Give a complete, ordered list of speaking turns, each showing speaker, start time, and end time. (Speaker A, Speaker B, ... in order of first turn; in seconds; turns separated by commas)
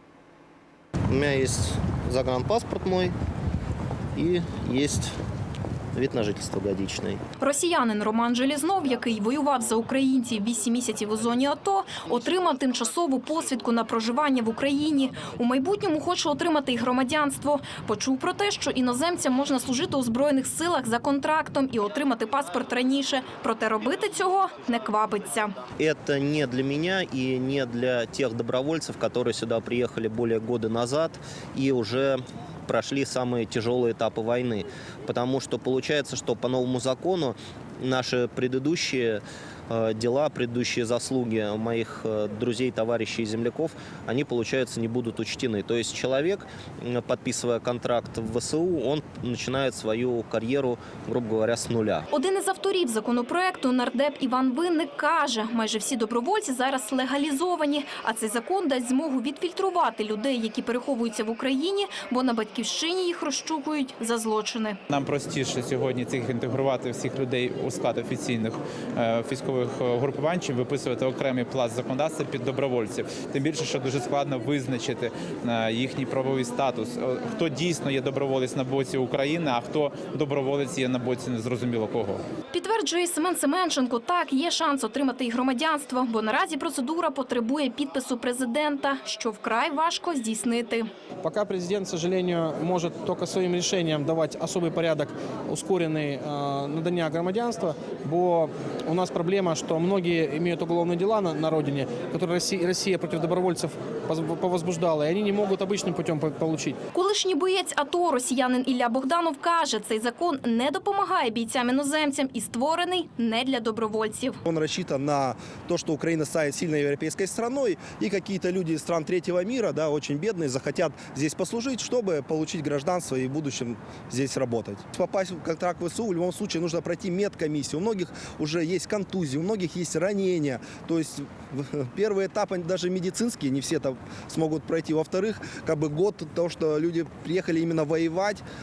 Speaker A: 1.1-3.1, Speaker A: 4.1-5.1, Speaker A: 5.9-7.2, Speaker B: 7.4-25.6, Speaker A: 25.8-52.0, Speaker B: 52.1-64.8, Speaker C: 64.9-82.2, Speaker B: 82.5-90.9, Speaker D: 91.2-106.8, Speaker B: 106.9-114.4, Speaker E: 114.4-138.4